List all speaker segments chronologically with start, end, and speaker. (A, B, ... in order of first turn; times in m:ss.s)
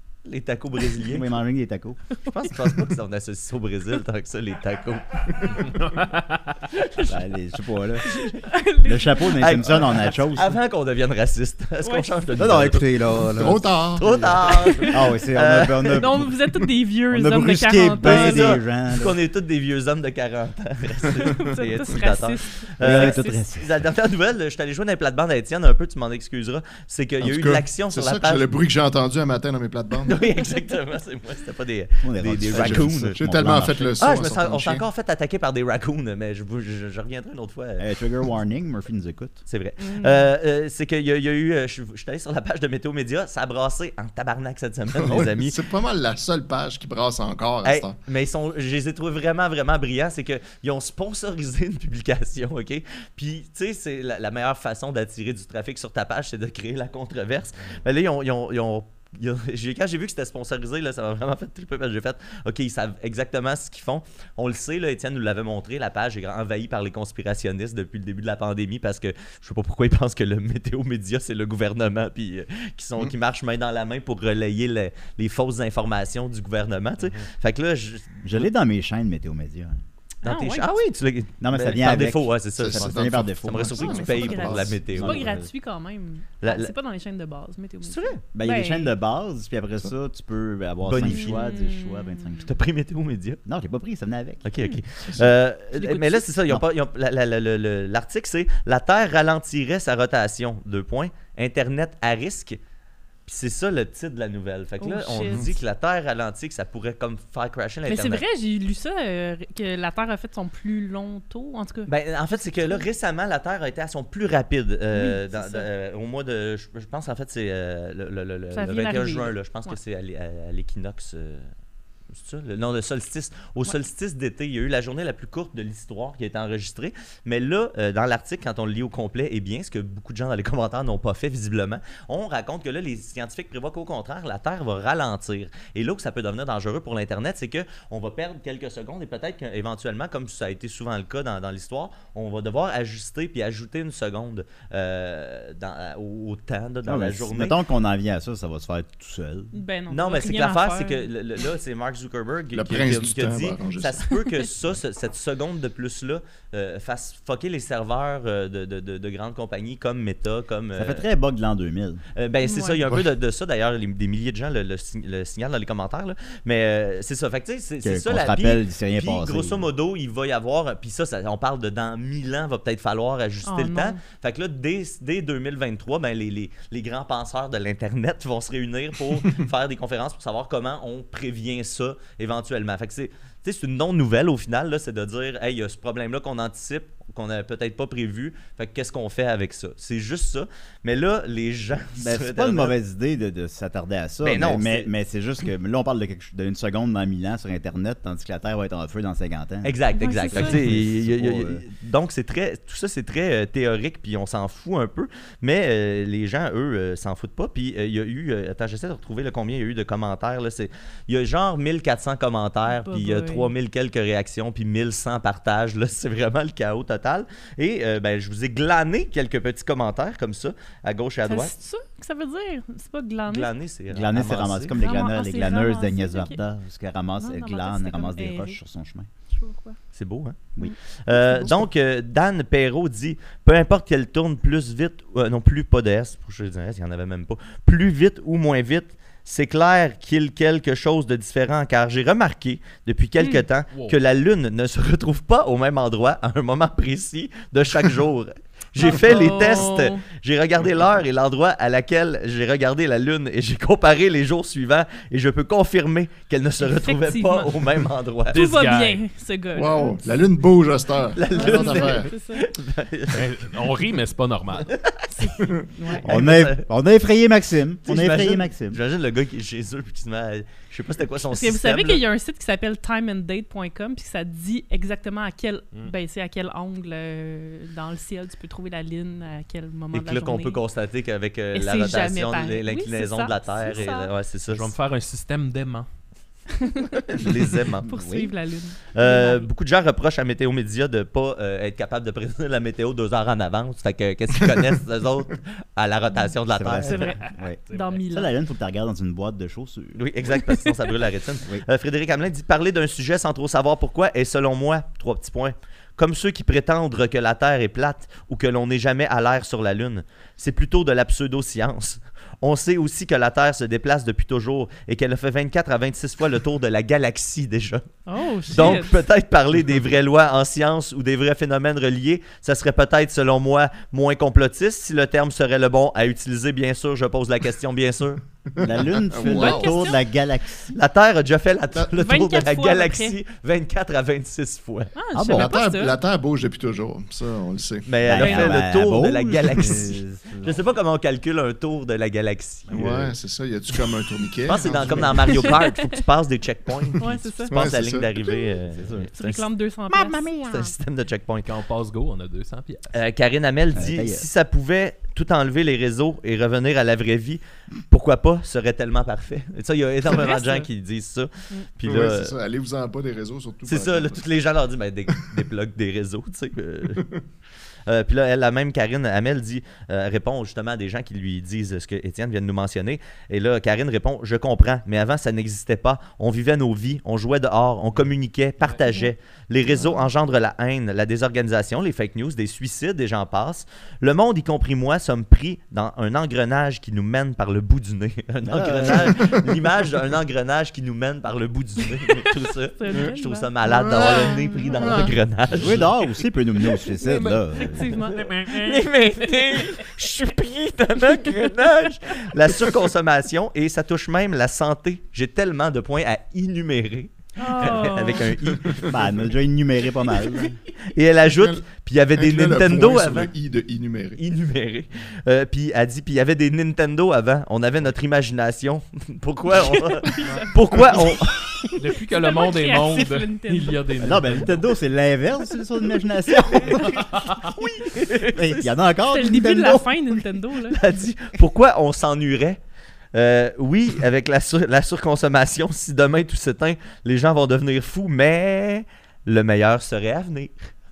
0:00.2-0:01.3 A
0:01.0-0:02.0 B
0:02.3-0:05.8 A
0:05.6-0:06.6 C
0:06.7-0:07.1 A
0:07.1-0:08.2 B
0:08.0-0:09.6 D
0:08.8-0:10.6 B
0:09.3-0:13.2 A
0:11.8-0:12.2 D
0:12.4-0:14.1 B
0:13.3-0:14.6 E
0:14.0-0:16.3 A
0:14.6-0:15.0 D
0:14.9-0:16.3 B
0:15.9-0:18.6 D
0:17.1-0:19.2 B
0:18.0-0:28.5 A
0:21.2-0:23.4 D
0:22.8-0:23.7 B
0:27.2-0:30.3 E
0:30.0-0:37.8 A
0:32.0-0:34.0 B
0:32.5-0:34.8 E
0:37.8-0:39.4 B
0:39.4-0:45.6 A
0:39.8-0:40.3 D
0:44.9-0:48.0 E
0:47.6-1:18.2 A
1:18.2-1:19.8 B
1:20.2-1:20.7 D
1:20.2-1:25.2 A
1:21.4-1:25.5 B
1:22.6-1:24.8 E
1:24.1-1:28.9 D
1:26.4-1:26.7 A
1:27.8-1:28.2 A
1:28.3-1:32.5 B
1:30.8-1:31.5 A
1:31.0-1:32.4 D
1:32.4-1:33.4 A
1:33.4-1:34.5 B
1:34.4-1:42.6 A
1:35.7-1:36.3 D
1:43.2-1:48.2 A
1:44.8-1:45.4 D
1:47.8-1:51.9 D
1:51.9-2:01.4 A
1:52.6-1:52.8 D
1:54.9-1:55.7 D
1:58.5-1:59.8 D
2:02.1-2:27.6 A
2:26.8-2:29.5 B
2:29.5-2:31.1 D
2:29.9-2:41.0 A
2:32.5-2:34.2 E
2:40.8-2:42.0 B
2:42.1-3:12.7 A
2:42.4-2:42.8 D
2:47.8-2:49.6 B
2:53.4-2:54.0 D
3:12.0-3:21.6 B
3:14.2-3:14.9 A
3:19.6-3:41.5 A
3:19.9-3:20.6 D
3:32.6-3:33.5 D
3:41.2-3:43.5 D
3:43.3-3:44.8 A
3:43.9-3:49.1 B
3:44.7-3:46.4 D
3:47.2-3:48.6 D
3:49.3-3:49.8 D
3:49.9-3:50.5 A
3:51.0-4:18.4 A
3:51.2-3:51.6 E
4:03.2-4:03.4 D
4:08.8-4:10.0 D
4:16.8-4:17.7 D
4:18.3-4:20.0 D
4:18.3-4:19.0 C
4:19.5-4:22.1 E
4:21.1-4:23.3 A
4:21.3-4:22.4 D
4:23.1-4:24.7 C
4:24.7-4:25.3 A
4:25.1-4:26.1 D
4:25.9-4:26.6 A
4:26.0-4:28.8 B
4:27.8-4:32.0 A
4:31.3-4:40.6 D
4:39.9-4:44.7 A
4:41.5-4:44.1 D
4:44.5-4:45.9 C
4:46.5-4:47.0 D
4:47.1-4:47.9 A
4:47.8-4:48.3 B
4:47.8-4:49.5 D
4:48.9-4:57.1 A
4:56.5-5:00.0 B
4:56.8-4:58.3 D
4:57.3-4:58.0 C
4:59.9-5:17.8 A
5:00.4-5:00.9 D
5:18.1-5:19.0 D
5:18.4-5:28.2 A
5:28.5-5:29.8 E
5:28.6-5:30.7 B
5:29.2-5:30.0 D
5:30.6-5:34.9 A
5:31.9-5:33.2 D
5:34.9-5:36.0 D
5:35.1-5:35.5 B
5:35.3-5:38.0 E
5:37.8-5:43.1 A
5:38.0-5:40.6 B
5:38.2-5:38.5 D
5:42.7-5:45.5 E
5:44.4-5:49.5 A
5:44.7-5:45.3 B
5:45.4-5:46.0 D
5:47.0-5:47.5 D
5:47.5-5:48.4 E
5:48.7-5:49.1 B
5:49.1-5:50.3 D
5:49.9-5:50.7 B
5:50.5-5:51.5 A
5:51.4-5:53.0 C
5:52.9-6:02.4 A
5:53.7-5:54.3 B
6:00.0-6:00.7 D
6:01.8-6:04.3 E
6:03.6-6:07.0 A
6:06.9-6:07.2 E
6:07.9-6:35.9 A
6:18.6-6:18.9 C
6:28.4-6:29.5 B
6:28.9-6:29.5 E
6:32.2-6:35.1 D
6:33.6-6:35.2 E
6:35.5-6:38.0 B
6:37.0-6:38.9 C
6:37.6-6:38.5 D
6:38.2-6:48.9 A
6:47.4-6:48.3 D
6:48.3-6:49.1 E
6:48.8-6:50.6 B
6:50.8-6:53.3 A
6:51.2-6:54.2 E
6:54.2-7:01.7 A
6:59.5-7:00.9 D
7:01.6-7:03.8 D
7:01.8-7:04.7 C
7:04.0-7:10.4 B
7:07.0-7:07.4 C
7:07.4-7:08.7 A
7:09.0-7:10.8 D
7:10.7-7:12.6 A
7:13.1-7:20.7 A